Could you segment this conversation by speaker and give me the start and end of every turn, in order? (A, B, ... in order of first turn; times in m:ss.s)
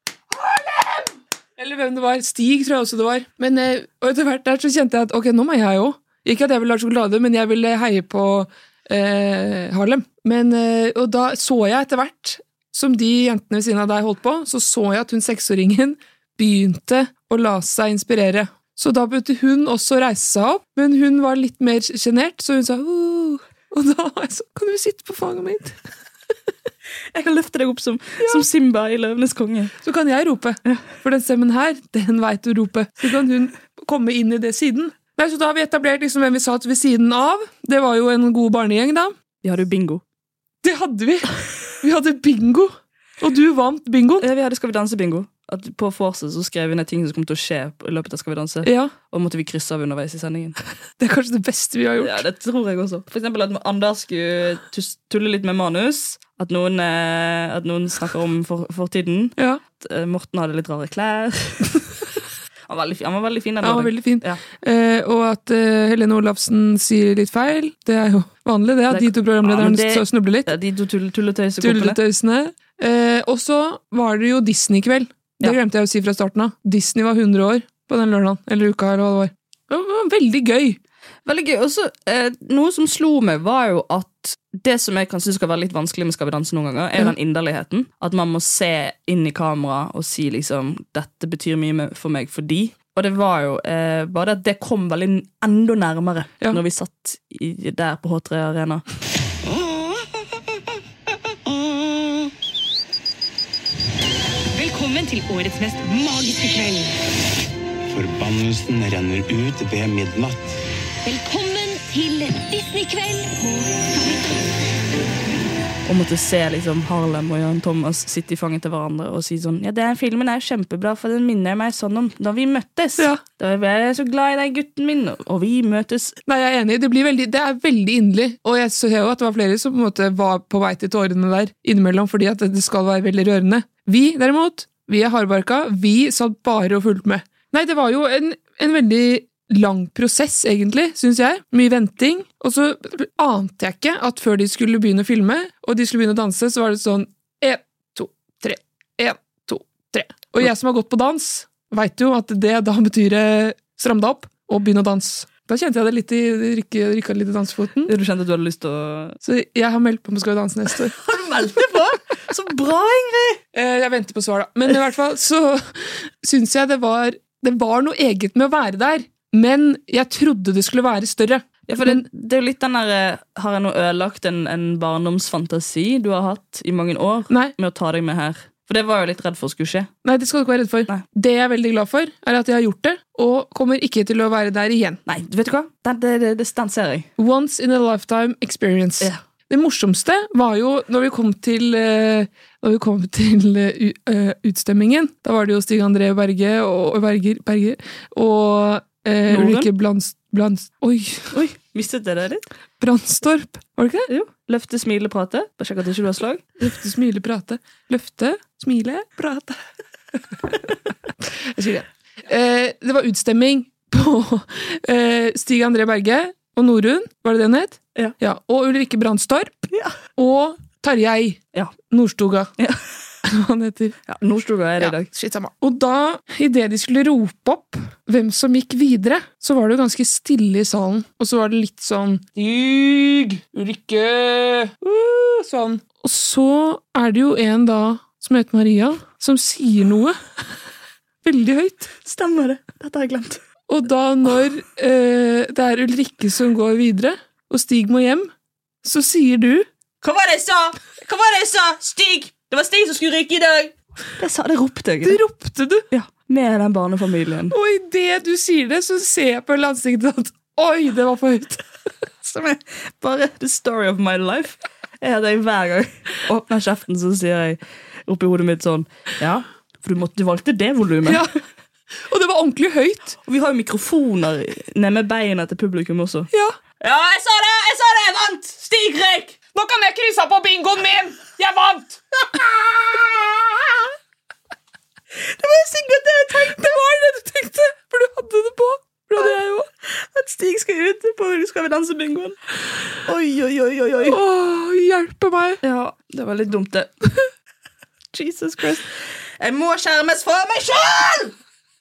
0:00.4-0:25.8 A
0:27.1-0:29.7 B
0:29.8-0:39.1 A
0:39.4-0:40.0 B
0:40.6-0:44.2 A
0:44.2-0:50.6 B
0:48.6-0:48.9 A
0:51.0-0:52.2 A
0:52.0-1:01.8 B
1:02.7-1:04.4 B
1:03.6-1:10.5 A
1:08.9-1:12.0 B
1:11.6-1:20.8 A
1:21.2-1:38.8 B
1:44.9-1:46.7 C
1:47.9-1:50.6 D
1:51.1-1:53.2 C
1:55.8-2:06.2 B
2:06.3-2:37.9 A
2:37.9-2:39.2 B
2:39.2-2:40.9 A
2:40.9-2:43.4 B
2:43.5-2:52.0 A
2:51.7-2:59.9 B
2:57.3-2:57.5 A
3:00.0-3:05.0 A
3:05.0-3:07.1 B
3:07.2-3:21.3 A
3:19.3-3:19.7 B
3:21.3-3:22.4 B
3:22.8-3:24.1 A
3:24.1-3:26.4 B
3:26.6-3:29.6 A
3:30.3-3:30.7 A
3:31.5-3:42.5 A
3:43.2-3:44.0 A
3:44.1-3:45.1 B
3:44.8-4:00.2 A
4:01.2-4:01.9 A
4:02.0-4:03.4 B
4:03.7-4:08.3 A
4:08.8-4:09.7 A
4:10.0-4:15.2 B
4:15.0-4:15.8 A
4:15.9-4:17.5 B
4:17.5-4:21.6 A
4:22.2-4:31.2 B
4:31.0-4:31.4 A
4:32.1-4:33.1 A
4:33.2-4:36.3 B
4:36.3-4:36.6 A
4:36.8-4:39.3 B
4:39.5-4:42.0 A
4:45.3-4:46.6 B
4:46.5-4:49.7 A
4:49.2-4:52.4 B
4:53.0-4:54.2 B
4:54.1-4:55.6 A
4:55.6-4:56.9 B
4:58.1-5:01.3 B